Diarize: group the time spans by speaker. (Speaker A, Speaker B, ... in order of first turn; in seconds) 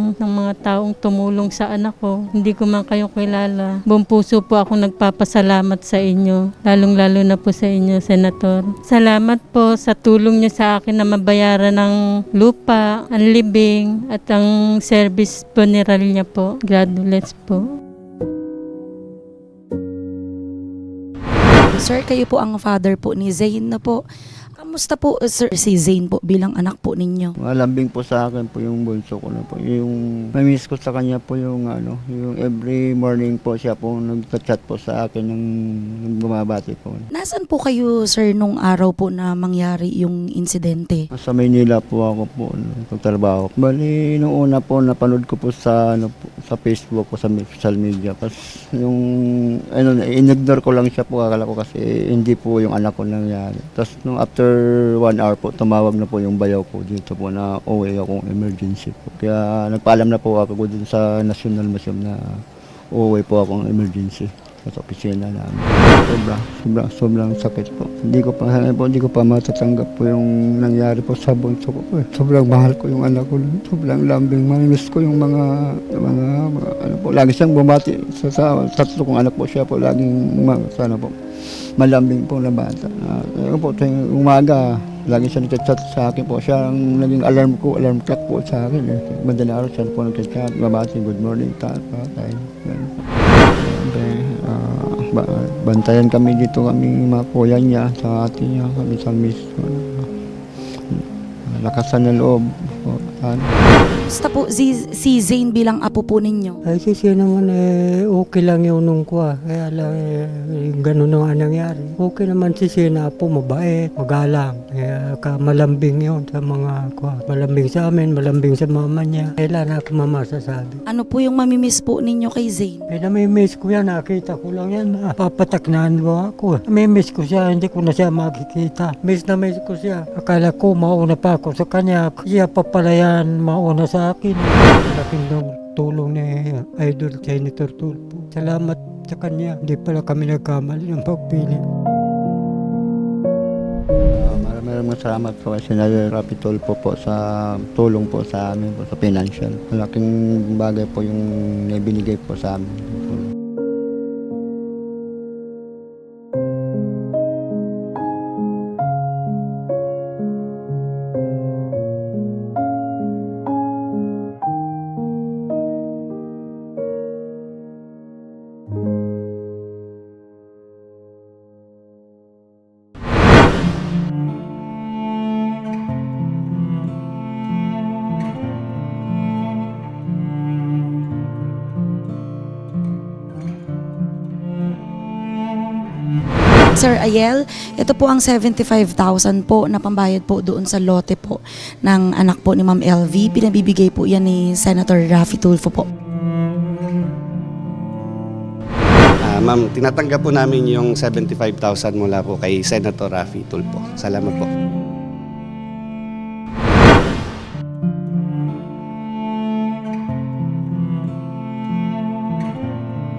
Speaker A: 0.2-17.6
Speaker B: 21.7-24.0, 24.6-27.4, 37.1-41.1, 104.0-106.6, 120.9-122.9, 186.8-195.9
Speaker C: 27.4-35.4, 36.0-37.1, 41.1-62.2, 62.9-81.1, 81.8-93.0, 93.6-100.1, 100.9-103.5, 144.2-153.3
Speaker D: 106.7-120.8, 122.9-141.6
Speaker E: 199.2-204.5